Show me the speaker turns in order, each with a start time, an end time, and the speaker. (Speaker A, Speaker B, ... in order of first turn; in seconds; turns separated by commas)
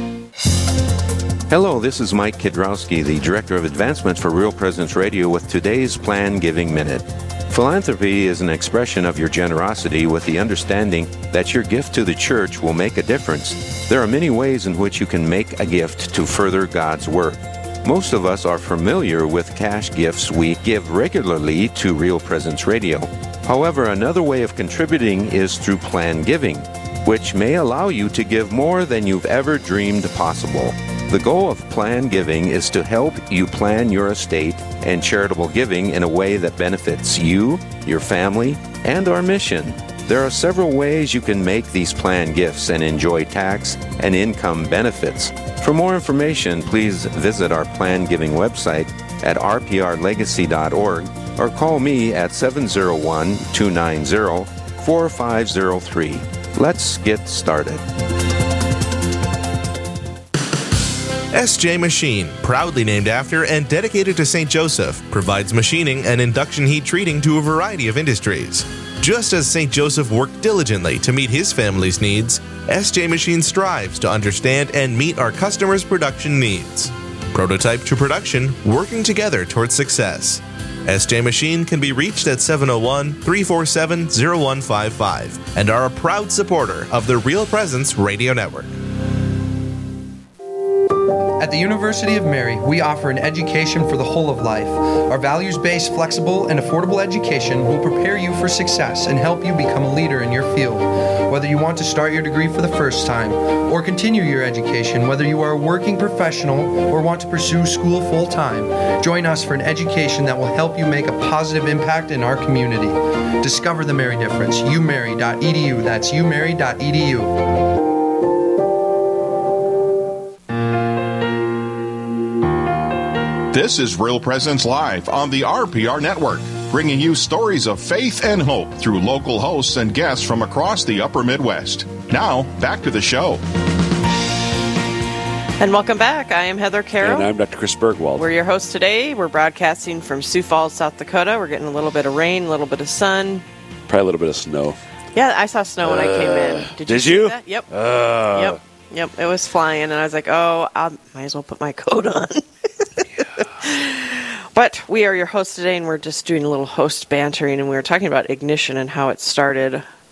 Speaker A: 1.5-57.8, Speaker B: 61.3-88.7, Speaker C: 91.4-117.4, Speaker D: 123.5-133.4, Speaker E: 135.6-137.3, Speaker F: 137.0-138.3, Speaker E: 138.2-143.4, Speaker F: 143.9-144.8, Speaker E: 145.2-147.7, Speaker F: 145.8-148.6, Speaker E: 148.3-152.4, Speaker E: 153.4-159.8